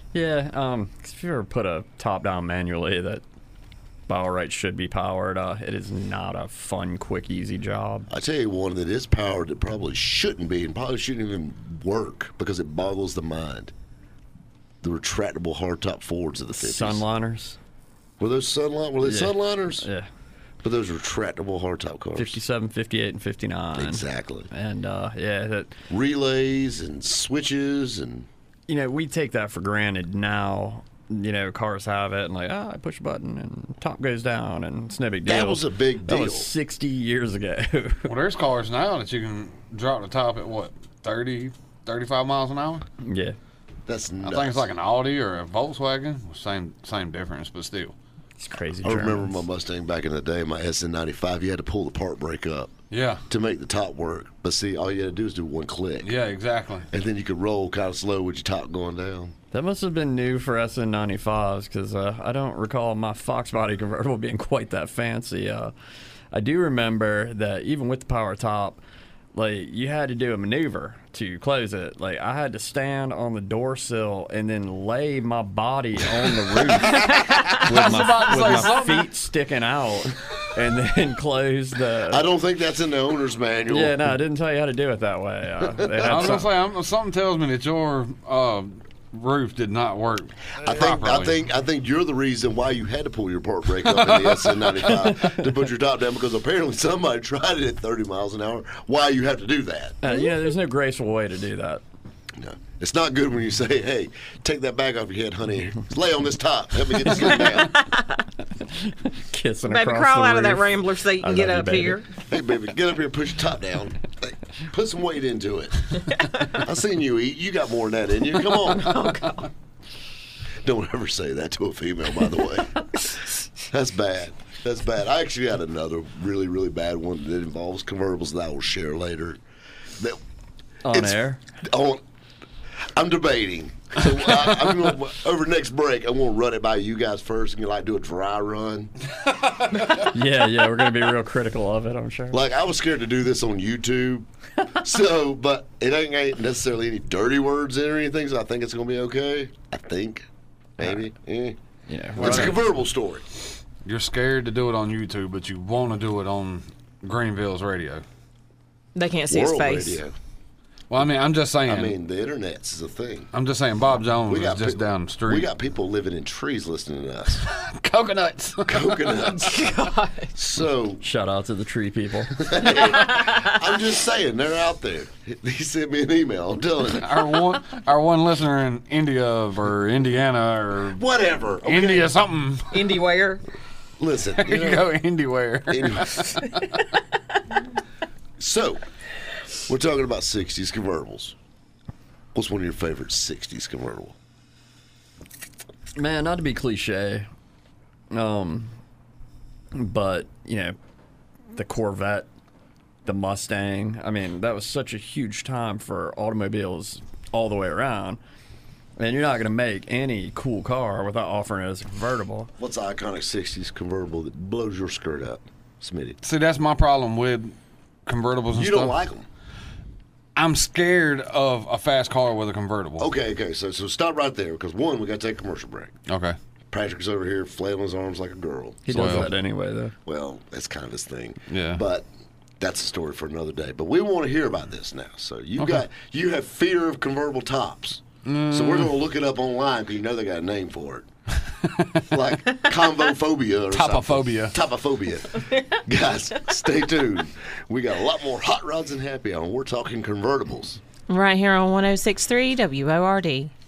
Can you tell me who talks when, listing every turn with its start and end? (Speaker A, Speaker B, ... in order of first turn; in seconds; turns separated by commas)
Speaker A: 0.1-3.2, Speaker A: 4.1-8.1, Speaker B: 8.1-13.7, Speaker B: 14.8-17.0, Speaker A: 16.5-17.6, Speaker B: 18.2-19.9, Speaker A: 19.0-20.1, Speaker B: 20.6-22.4, Speaker A: 22.1-25.8, Speaker B: 23.8-24.5, Speaker B: 25.9-28.3, Speaker A: 28.7-38.1, Speaker B: 35.2-36.5, Speaker C: 38.1-42.8, Speaker A: 43.0-43.4, Speaker B: 43.9-44.6, Speaker C: 44.2-47.9, Speaker A: 48.4-49.4, Speaker B: 48.8-52.8, Speaker C: 52.9-53.2, Speaker B: 53.3-56.1, Speaker C: 56.0-56.9, Speaker B: 56.9-59.3, Speaker A: 59.5-65.7, Speaker A: 66.3-68.8, Speaker A: 69.3-82.2, Speaker B: 76.7-77.5, Speaker D: 77.1-77.8, Speaker C: 77.6-79.1, Speaker B: 82.1-84.1, Speaker A: 83.7-86.5, Speaker B: 85.6-86.4, Speaker C: 86.0-91.4, Speaker B: 90.6-100.0, Speaker C: 93.8-94.8, Speaker A: 95.0-95.5, Speaker A: 100.0-101.8, Speaker B: 102.3-107.8, Speaker D: 107.5-108.2, Speaker A: 108.7-112.0, Speaker D: 109.7-112.1, Speaker B: 112.3-119.3, Speaker B: 120.6-129.4, Speaker A: 130.8-131.4, Speaker B: 130.9-132.0, Speaker B: 132.9-138.9, Speaker C: 139.3-140.0, Speaker A: 140.0-142.4, Speaker B: 142.3-151.6, Speaker A: 151.9-152.6, Speaker B: 152.1-153.3, Speaker C: 152.2-152.7, Speaker C: 153.8-158.0, Speaker D: 158.9-160.0, Speaker B: 159.3-160.2, Speaker C: 160.9-161.9, Speaker B: 161.7-163.3, Speaker C: 163.3-165.5, Speaker B: 164.2-167.5, Speaker C: 167.5-169.3, Speaker B: 168.6-169.7, Speaker D: 169.4-170.3, Speaker B: 170.3-171.0, Speaker A: 171.0-172.5, Speaker B: 172.4-177.3, Speaker D: 172.8-173.4, Speaker C: 177.0-181.0, Speaker B: 180.9-182.2, Speaker C: 181.6-183.0, Speaker D: 182.7-183.4, Speaker B: 184.0-184.9, Speaker C: 184.3-186.8, Speaker B: 185.7-186.3, Speaker B: 188.4-188.8, Speaker B: 189.6-191.3, Speaker B: 192.3-194.2, Speaker A: 195.9-197.3, Speaker A: 198.1-198.8, Speaker A: 199.7-200.8, Speaker A: 201.6-202.3, Speaker A: 203.1-208.2, Speaker A: 209.0-212.5, Speaker B: 212.6-216.2, Speaker C: 216.2-217.5, Speaker C: 218.1-218.9, Speaker B: 218.5-219.3, Speaker C: 220.3-223.1, Speaker B: 223.0-225.9, Speaker C: 226.1-226.3, Speaker B: 226.7-229.3, Speaker A: 228.9-229.9, Speaker C: 228.9-229.3, Speaker B: 230.0-232.1, Speaker C: 231.5-231.8, Speaker B: 232.6-241.1, Speaker C: 238.2-238.9, Speaker B: 242.1-250.8, Speaker C: 243.7-244.5, Speaker E: 251.1-253.5